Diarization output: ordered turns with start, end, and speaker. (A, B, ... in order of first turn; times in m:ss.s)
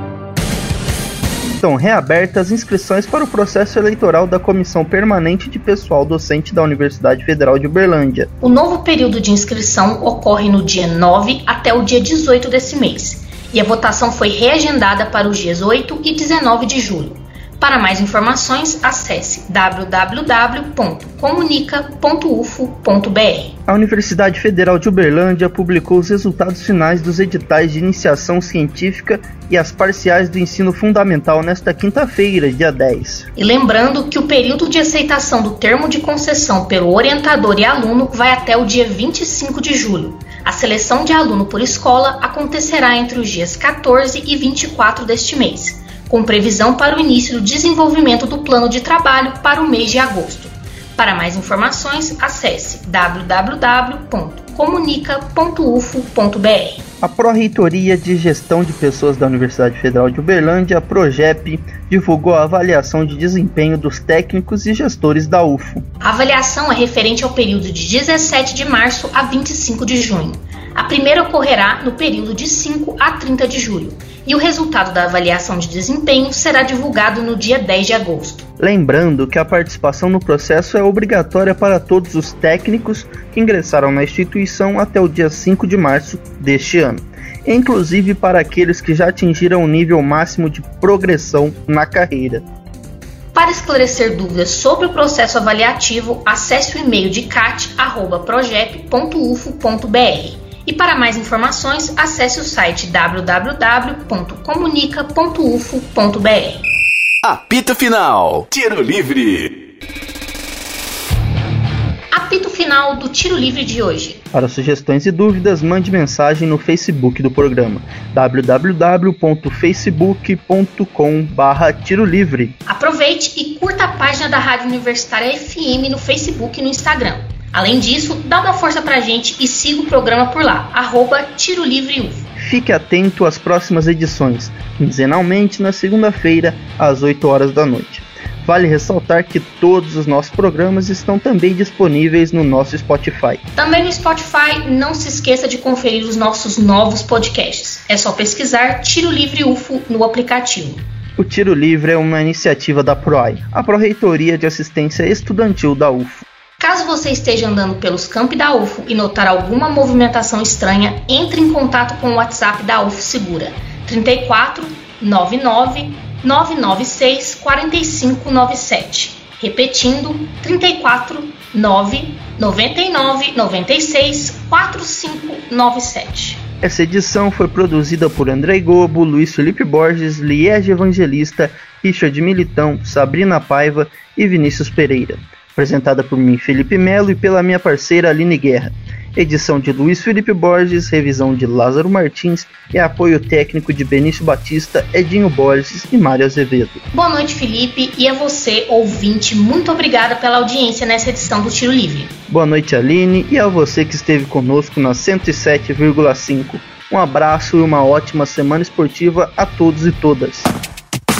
0:01.6-0:08.3 A
0:08.4-0:23.5 B
0:23.7-0:33.2 A
0:33.4-0:56.8 B
0:57.0-1:05.8 A
1:06.0-1:18.4 B
1:18.6-1:32.4 A
1:33.3-1:46.6 B
1:47.2-1:49.6 C
1:52.1-1:54.2 B
1:54.3-2:02.5 A
2:02.7-2:12.3 B
2:12.4-2:23.4 A
2:23.6-2:30.8 B
2:31.2-2:36.2 A
2:36.6-2:56.4 B
2:56.6-3:16.8 A
3:16.9-3:22.1 B
3:22.3-3:30.5 A